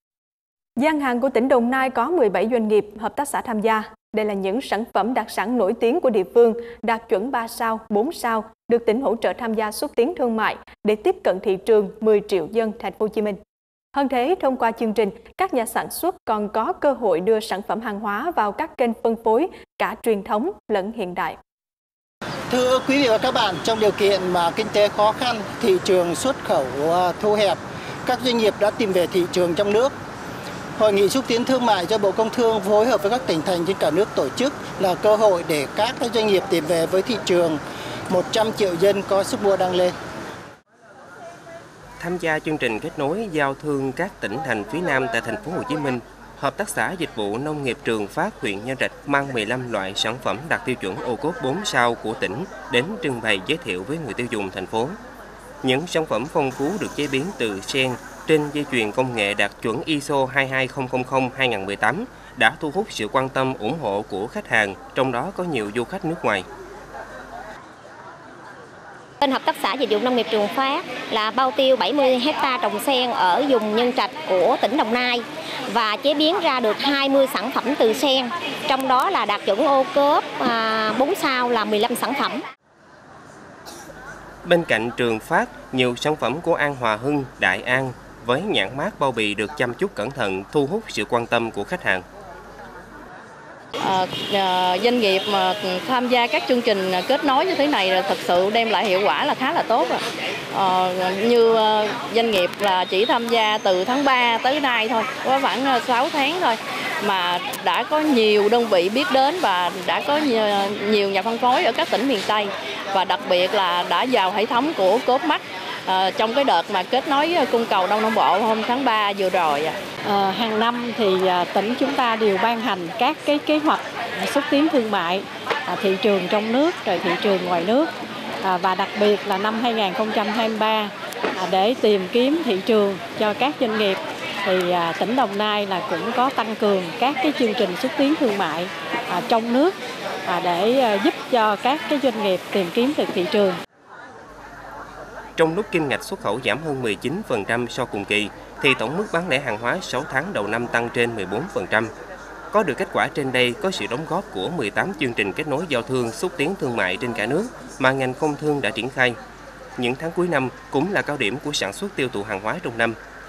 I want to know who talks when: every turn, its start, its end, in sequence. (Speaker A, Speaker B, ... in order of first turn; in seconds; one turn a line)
Speaker A: 0.8-13.4
Speaker A: 13.9-21.4
Speaker B: 22.5-29.9
Speaker B: 30.8-39.9
Speaker C: 42.0-55.0
Speaker C: 55.6-66.5
Speaker D: 69.2-82.4
Speaker C: 84.4-92.0
Speaker E: 93.8-100.0
Speaker E: 100.5-119.8
Speaker F: 120.0-127.9
Speaker F: 128.4-139.7
Speaker F: 140.2-143.6
Speaker C: 145.4-151.9
Speaker C: 152.5-159.2
Speaker C: 159.8-163.0